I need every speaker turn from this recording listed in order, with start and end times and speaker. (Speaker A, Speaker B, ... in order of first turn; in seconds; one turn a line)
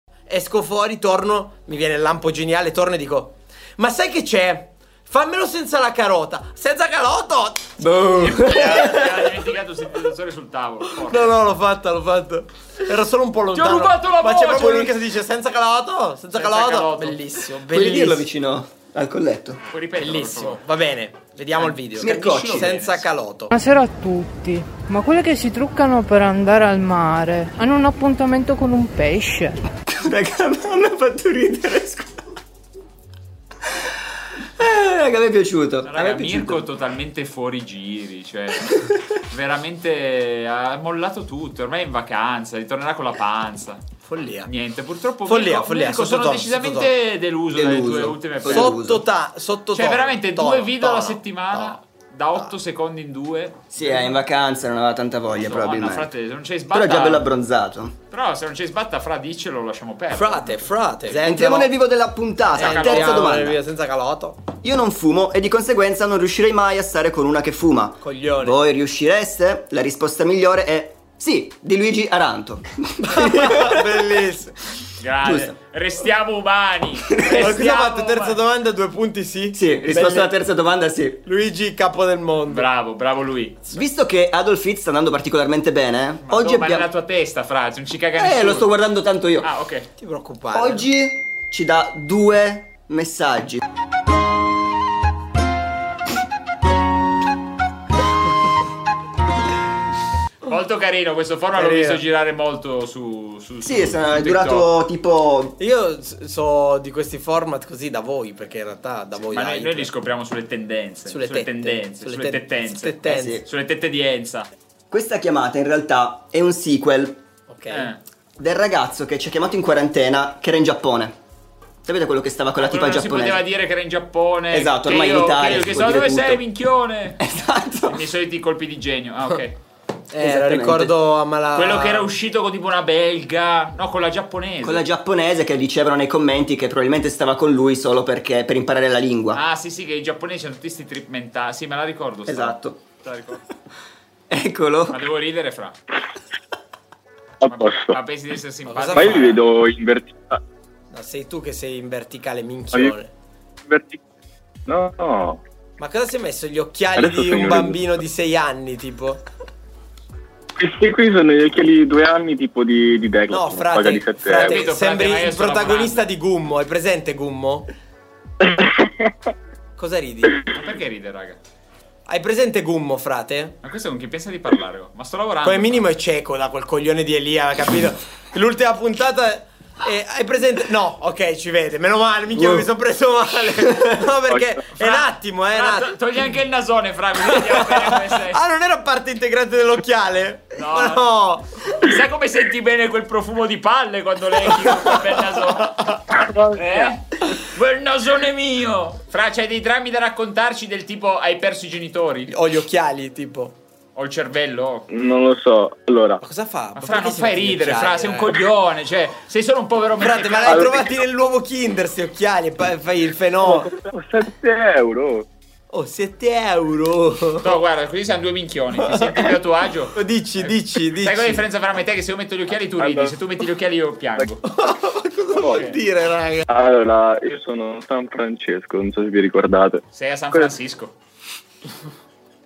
Speaker A: 0.3-7.8
Speaker B: 7.8-9.1
Speaker C: 8.5-11.4
Speaker A: 11.0-18.3
Speaker C: 13.5-15.0
Speaker C: 16.3-17.2
Speaker B: 17.7-19.6
Speaker C: 19.7-20.6
Speaker A: 20.0-23.5
Speaker C: 21.6-23.1
Speaker B: 22.0-22.7
Speaker D: 23.5-29.6
Speaker B: 29.9-32.2
Speaker B: 34.6-36.7
Speaker C: 35.9-43.9
Speaker A: 44.0-44.5
Speaker C: 44.5-48.7
Speaker A: 45.3-46.9
Speaker B: 47.5-49.0
Speaker A: 48.5-51.8
Speaker C: 49.8-53.7
Speaker B: 53.7-56.1
Speaker C: 55.3-57.3
Speaker B: 56.7-58.0
Speaker C: 58.1-60.7
Speaker A: 60.1-61.7
Speaker B: 61.1-63.6
Speaker A: 62.5-64.4
Speaker C: 62.6-63.3
Speaker B: 64.6-73.8
Speaker A: 68.0-68.6
Speaker A: 73.0-74.6
Speaker C: 75.0-78.4
Speaker B: 75.2-75.5
Speaker A: 77.3-80.3
Speaker B: 79.5-81.2
Speaker C: 79.8-80.2
Speaker A: 81.2-82.7
Speaker C: 82.5-83.6
Speaker B: 83.7-86.9
Speaker C: 86.2-88.7
Speaker B: 88.2-89.5
Speaker C: 89.4-89.9
Speaker A: 90.0-90.9
Speaker B: 90.5-93.6
Speaker C: 100.5-104.7
Speaker A: 101.5-102.0
Speaker B: 103.6-105.6
Speaker A: 105.6-109.9
Speaker C: 109.3-114.5
Speaker A: 111.1-113.4
Speaker B: 113.1-113.5
Speaker B: 114.9-117.2
Speaker A: 117.5-117.9
Speaker C: 117.7-118.0
Speaker B: 118.4-121.2
Speaker B: 121.8-123.4
Speaker C: 122.6-129.6
Speaker B: 124.5-126.4
Speaker B: 127.2-128.0
Speaker A: 130.1-132.1
Speaker B: 130.2-130.9
Speaker C: 131.6-134.8
Speaker B: 134.6-139.4
Speaker C: 139.3-143.4
Speaker B: 142.3-142.8
Speaker B: 144.3-145.0
Speaker C: 144.9-145.8
Speaker E: 147.4-147.9
Speaker C: 147.4-149.4
Speaker A: 148.7-149.3
Speaker E: 148.9-150.4
Speaker A: 150.9-153.1
Speaker E: 153.7-154.0
Speaker E: 154.7-155.4
Speaker A: 155.8-159.2
Speaker E: 157.0-157.8
Speaker E: 160.6-164.7
Speaker A: 163.3-167.7
Speaker C: 164.4-166.1
Speaker E: 168.4-169.1
Speaker A: 169.8-170.4
Speaker C: 170.5-171.4
Speaker A: 172.1-173.6
Speaker C: 173.6-175.8
Speaker A: 175.4-185.9
Speaker B: 182.4-182.7
Speaker C: 184.8-188.4
Speaker A: 187.3-191.5
Speaker C: 190.6-191.1
Speaker C: 191.7-195.8
Speaker E: 196.2-196.9
Speaker C: 196.5-202.3
Speaker A: 202.3-203.6
Speaker C: 204.0-204.9
Speaker E: 204.9-206.2
Speaker A: 206.2-208.4
Speaker C: 206.8-210.7
Speaker A: 210.0-213.7
Speaker E: 210.5-210.9
Speaker E: 213.4-215.3
Speaker A: 215.7-217.5
Speaker C: 217.4-224.4
Speaker A: 218.9-219.3
Speaker A: 219.9-221.4
Speaker E: 222.8-223.1
Speaker A: 224.4-226.5
Speaker C: 225.5-225.8
Speaker E: 226.5-230.5
Speaker C: 229.9-230.9